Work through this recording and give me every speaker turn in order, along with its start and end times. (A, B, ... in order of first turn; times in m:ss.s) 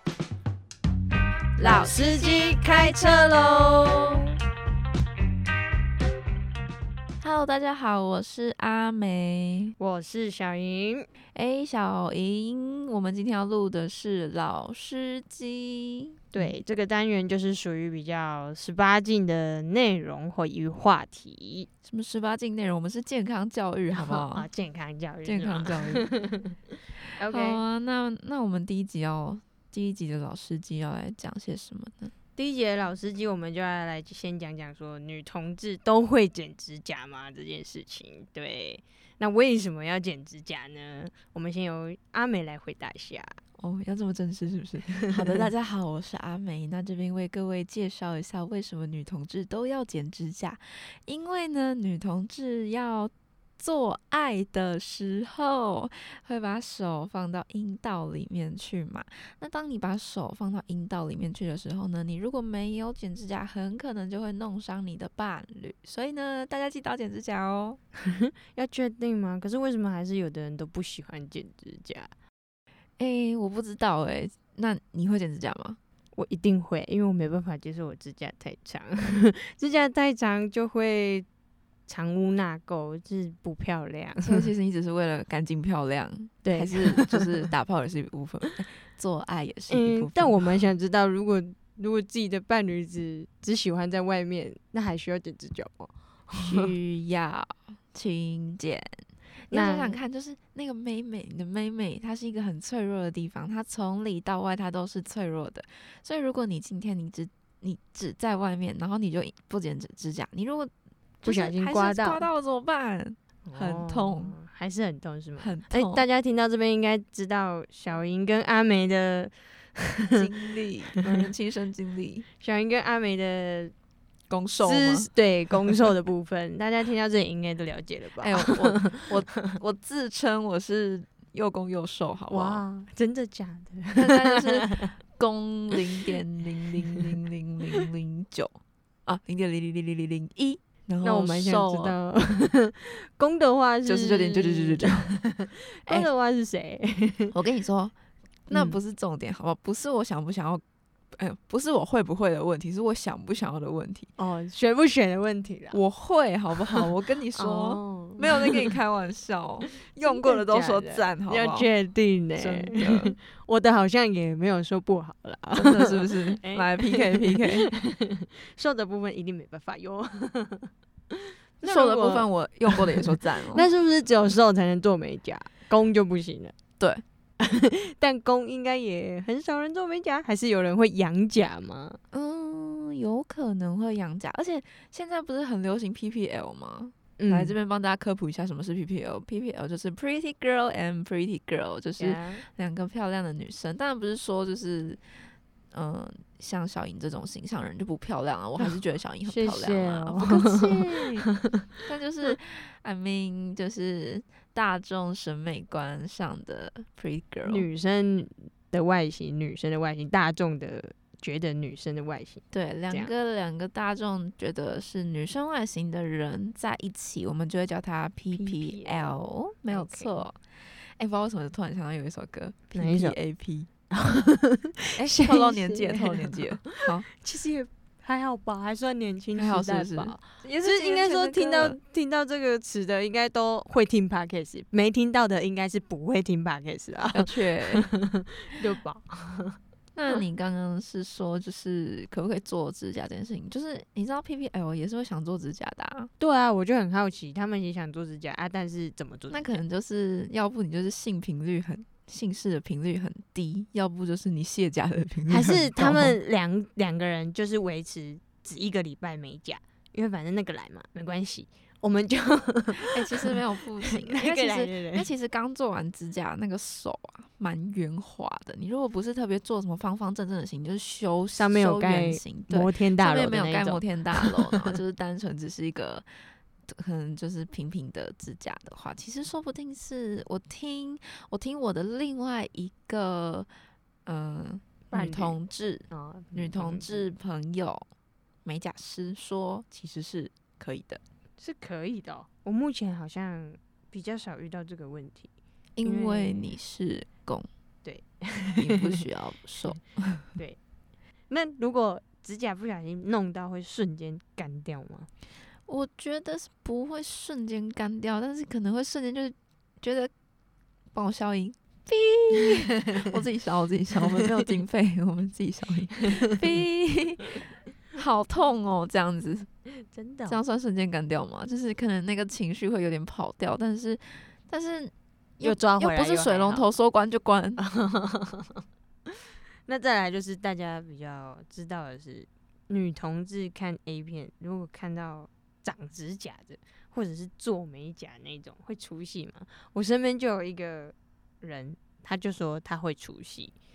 0:01.6-0:04.1 A
0:01.6-0:04.2 B
0:07.2-0:09.8 B
0:09.8-0:11.1 A
0:11.3-0:16.6 B
0:16.3-0:21.7 A
0:21.8-0:24.5 B
0:23.9-0:26.6 A
0:25.2-0:26.1 B
0:27.2-0:27.6 A
0:27.2-0:32.1 B
0:32.4-0:43.4 A
0:43.6-1:07.8 B
0:45.0-0:45.5 A
1:08.0-1:12.1 A
1:13.0-1:15.8 B
1:16.2-1:21.3 A
1:21.9-1:24.4 A
1:24.2-1:30.6 B
1:26.4-1:27.3 A
1:29.7-1:36.7 A
1:36.4-1:50.7 B
1:39.5-1:40.0 A
1:51.2-1:52.3 A
1:51.2-1:54.4 B
1:53.5-2:00.2 A
1:55.4-1:56.0 B
2:00.1-2:02.3 B
2:00.9-2:01.3 A
2:02.4-2:03.7 A
2:04.3-2:05.1 B
2:04.6-2:09.6 A
2:08.2-2:12.6 B
2:12.3-2:14.9 A
2:14.0-2:22.0 B
2:16.8-2:17.1 A
2:21.0-2:27.4 A
2:23.8-2:25.1 B
2:27.3-2:27.9 B
2:28.5-2:30.6 B
2:28.5-2:28.8 A
2:31.1-2:34.1 B
2:34.2-2:35.8 A
2:35.7-2:41.7 B
2:36.6-2:38.7 A
2:40.0-2:56.6 A
2:42.4-2:43.2 B
2:45.6-2:47.7 B
2:51.6-2:53.7 B
2:57.4-3:02.0 A
3:02.1-3:15.0 B
3:07.2-3:07.6 A
3:12.0-3:12.4 A
3:15.7-3:21.3 B
3:19.3-3:21.6 A
3:21.8-3:27.7 B
3:27.4-3:33.1 A
3:32.5-3:43.7 B
3:38.3-3:40.2 A
3:42.8-3:43.2 A
3:43.9-3:59.6 A
3:45.0-3:47.1 B
3:49.4-3:51.8 B
3:57.1-3:57.9 B
4:00.0-4:06.1 B
4:06.2-4:09.6 A
4:09.3-4:16.2 B
4:15.3-4:25.1 A
4:22.8-4:36.1 B
4:31.4-4:34.8 A
4:36.7-4:43.5 B
4:44.0-4:47.8 B
4:44.9-4:45.4 A
4:45.9-4:47.1 A
4:48.4-4:51.0 B
4:51.4-4:55.3 A
4:55.8-4:57.5 B
4:55.8-4:56.5 A
4:57.8-4:59.0 A
4:58.6-5:00.3 B
5:01.3-5:05.1 A
5:05.7-5:10.1 B
5:10.9-5:17.4 B
5:16.0-5:16.4 A
5:17.9-5:19.5 B
5:19.8-5:20.4 A
5:20.3-5:27.6 B
5:25.4-5:26.7 A
5:27.6-5:29.1 A
5:29.7-5:43.5 A